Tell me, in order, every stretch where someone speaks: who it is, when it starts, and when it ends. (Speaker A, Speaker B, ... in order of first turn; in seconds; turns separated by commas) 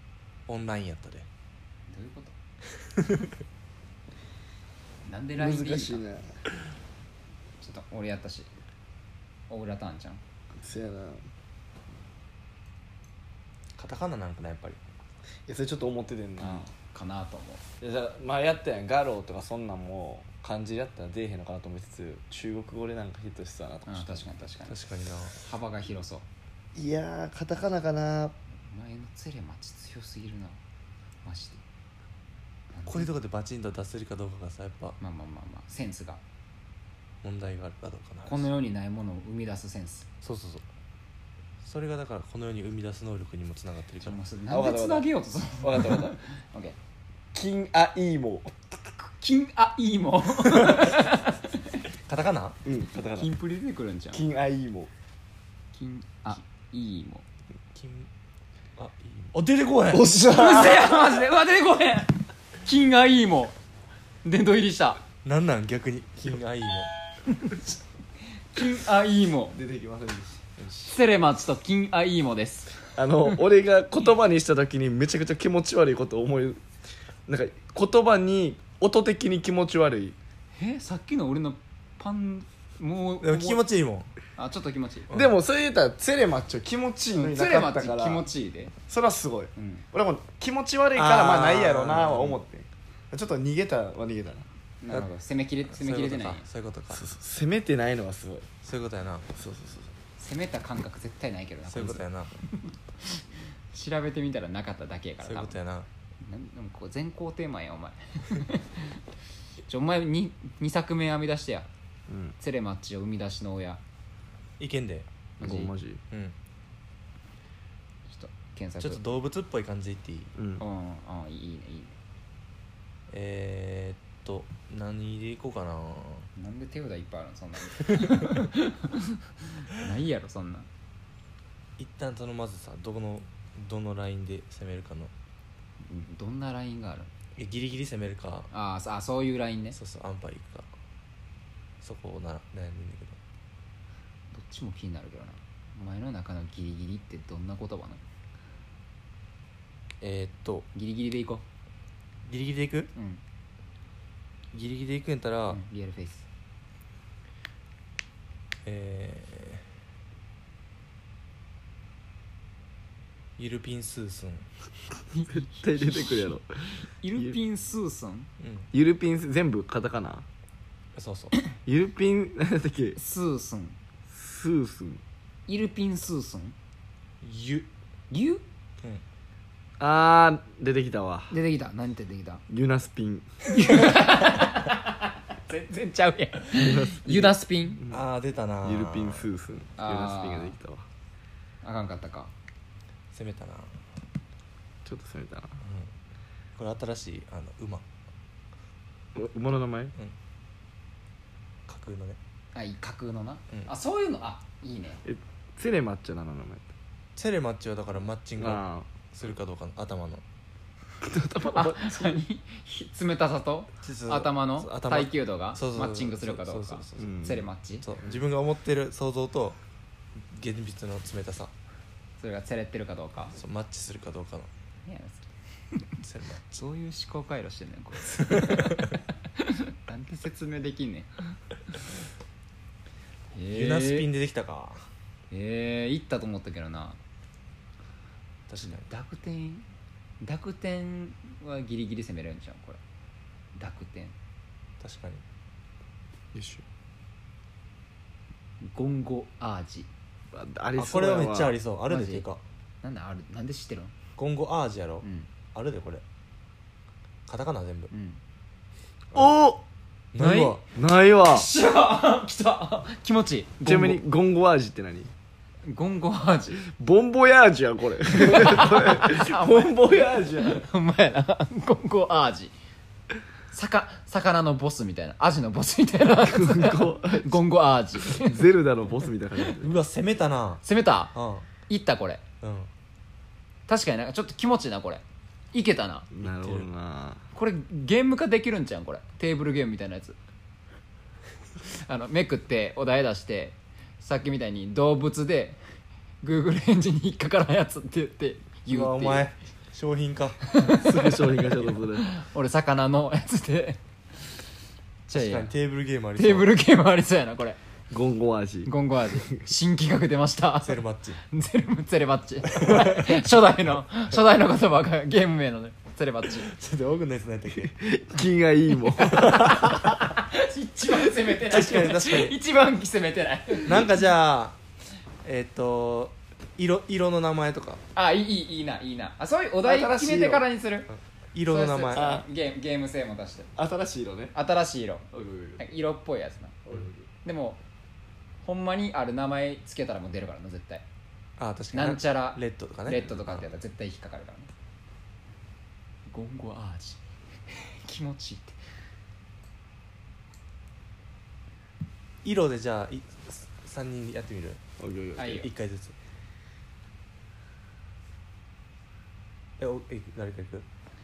Speaker A: 0.5-1.3, Speaker B: 1.9-2.3, Speaker A: 2.9-3.3, Speaker B: 5.0-6.0, Speaker C: 5.4-6.4, Speaker B: 7.6-8.5, Speaker B: 9.5-10.2, Speaker C: 10.6-11.2, Speaker A: 13.8-14.8, Speaker C: 15.5-16.7, Speaker B: 16.4-17.6, Speaker C: 17.8-24.3, Speaker B: 23.9-24.8, Speaker A: 24.7-25.4, Speaker B: 25.3-26.2, Speaker C: 26.7-28.3, Speaker B: 28.5-30.6, Speaker B: 31.2-31.6, Speaker B: 32.7-33.1, Speaker A: 32.8-35.0, Speaker B: 35.0-36.2, Speaker A: 37.2-38.5, Speaker B: 38.2-40.1, Speaker A: 40.2-40.6, Speaker A: 41.6-44.2, Speaker B: 44.0-46.8, Speaker C: 44.5-46.2, Speaker C: 47.3-48.5, Speaker B: 49.2-51.8, Speaker A: 52.0-52.6, Speaker C: 52.6-53.3, Speaker B: 53.1-54.2, Speaker C: 54.1-54.9, Speaker B: 55.7-57.2, Speaker A: 57.7-58.1, Speaker A: 58.8-60.0, Speaker C: 59.9-61.1, Speaker B: 60.3-63.5, Speaker B: 64.2-65.0, Speaker A: 65.2-66.9, Speaker B: 67.3-67.7, Speaker B: 68.5-69.6, Speaker C: 69.5-70.5, Speaker B: 70.8-72.8, Speaker C: 72.9-76.6, Speaker C: 77.3-80.2, Speaker B: 80.5-83.5, Speaker A: 83.2-84.1, Speaker B: 84.4-85.1, Speaker C: 85.1-88.2, Speaker B: 87.1-88.7, Speaker C: 88.9-94.5, Speaker B: 89.5-89.8, Speaker A: 90.9-92.4, Speaker B: 94.8-96.5, Speaker A: 95.7-97.0, Speaker C: 96.9-98.5, Speaker A: 98.6-99.3, Speaker C: 99.3-99.9, Speaker B: 100.2-105.6, Speaker A: 101.7-102.3, Speaker A: 105.2-105.9, Speaker B: 106.2-109.0, Speaker B: 109.7-111.7, Speaker C: 112.1-112.3, Speaker B: 112.4-113.8, Speaker A: 114.6-115.1, Speaker B: 115.4-115.7, Speaker C: 115.4-116.0, Speaker B: 118.1-119.1, Speaker A: 118.8-120.3, Speaker C: 120.4-120.6, Speaker B: 120.6-121.9, Speaker A: 123.1-126.3, Speaker B: 126.3-130.7, Speaker A: 127.8-128.4, Speaker A: 131.8-135.1, Speaker B: 135.8-137.1, Speaker A: 137.3-138.5, Speaker B: 138.5-139.8, Speaker A: 139.7-140.7, Speaker A: 141.8-143.2, Speaker B: 144.3-148.0, Speaker A: 150.0-150.7, Speaker B: 150.7-151.4, Speaker A: 152.2-152.9, Speaker B: 152.9-153.2, Speaker A: 154.5-155.6, Speaker B: 155.5-156.2, Speaker A: 158.6-159.6, Speaker A: 163.4-164.5, Speaker B: 165.1-166.4, Speaker C: 165.3-167.4, Speaker B: 167.0-168.3, Speaker A: 168.4-168.7, Speaker C: 168.7-170.2, Speaker A: 170.9-171.3, Speaker C: 171.6-173.0, Speaker B: 172.9-173.8, Speaker C: 174.1-175.0, Speaker B: 175.5-176.6, Speaker A: 177.2-177.7, Speaker B: 178.1-178.4, Speaker C: 179.8-181.3, Speaker B: 181.3-182.4, Speaker C: 182.5-183.4, Speaker B: 183.5-187.8, Speaker C: 186.5-188.0, Speaker A: 187.9-189.3, Speaker C: 188.6-190.8, Speaker B: 189.8-190.6, Speaker B: 191.6-192.3, Speaker A: 193.1-193.8, Speaker C: 194.8-195.6, Speaker A: 195.6-195.9, Speaker A: 196.6-197.8, Speaker C: 199.1-199.9, Speaker A: 201.7-202.2, Speaker B: 202.5-205.0, Speaker C: 205.0-206.7, Speaker A: 207.2-210.2, Speaker C: 208.4-208.9, Speaker C: 211.0-212.2, Speaker B: 211.5-217.9, Speaker A: 213.8-217.2, Speaker C: 217.0-217.5, Speaker A: 217.8-219.6, Speaker A: 220.2-221.5, Speaker B: 222.2-223.3, Speaker A: 223.3-224.5, Speaker B: 224.8-225.9, Speaker A: 226.0-226.6, Speaker B: 226.5-231.2, Speaker A: 228.1-228.9, Speaker B: 233.3-234.1, Speaker A: 233.5-234.8, Speaker B: 235.3-237.0, Speaker A: 238.5-238.9, Speaker B: 238.6-239.6, Speaker B: 240.2-242.8, Speaker B: 243.5-244.1, Speaker A: 244.8-245.2, Speaker C: 246.3-246.6, Speaker B: 248.6-249.9, Speaker C: 250.3-251.6, Speaker A: 250.8-252.4, Speaker B: 251.9-252.2, Speaker B: 252.8-253.9, Speaker A: 254.2-256.0, Speaker B: 255.0-255.3, Speaker A: 257.3-257.9, Speaker B: 257.9-258.2, Speaker C: 259.1-259.6, Speaker A: 259.1-259.4, Speaker A: 260.1-260.6, Speaker B: 260.1-260.6, Speaker C: 260.7-261.5, Speaker B: 261.3-264.0, Speaker C: 263.6-265.1, Speaker B: 265.6-266.6, Speaker C: 266.6-270.6, Speaker B: 268.1-272.5, Speaker B: 273.5-278.4, Speaker C: 276.2-277.4, Speaker C: 278.1-279.7, Speaker A: 279.6-281.5, Speaker B: 280.6-281.1, Speaker B: 281.7-282.2, Speaker A: 282.4-282.7, Speaker B: 283.7-286.1, Speaker C: 286.1-287.2, Speaker A: 286.2-286.7, Speaker B: 287.3-290.2, Speaker B: 291.6-295.6, Speaker B: 296.2-299.3, Speaker A: 298.7-300.4, Speaker B: 300.5-301.1, Speaker C: 300.7-302.1, Speaker B: 301.9-303.8, Speaker B: 305.1-305.5, Speaker A: 305.1-306.6, Speaker B: 306.1-307.6, Speaker C: 307.9-309.1, Speaker B: 308.6-316.5, Speaker A: 310.6-311.2, Speaker A: 312.5-313.4, Speaker A: 316.4-317.7, Speaker C: 317.6-319.5, Speaker A: 319.0-320.0, Speaker B: 319.1-323.9, Speaker A: 321.2-322.3, Speaker A: 323.6-324.6, Speaker A: 325.2-327.8, Speaker B: 327.9-330.9, Speaker C: 329.6-330.4, Speaker A: 331.3-332.1, Speaker B: 331.4-333.5, Speaker C: 331.9-332.3, Speaker C: 333.6-334.3, Speaker B: 334.3-335.1, Speaker C: 335.1-335.7, Speaker B: 335.6-336.6, Speaker C: 336.7-337.0, Speaker B: 337.2-337.6, Speaker B: 338.4-340.8, Speaker A: 341.4-343.5, Speaker B: 341.7-344.5, Speaker B: 346.1-348.6, Speaker A: 352.2-354.6, Speaker C: 354.8-355.4, Speaker B: 355.2-355.5, Speaker A: 355.2-355.9, Speaker A: 359.6-360.6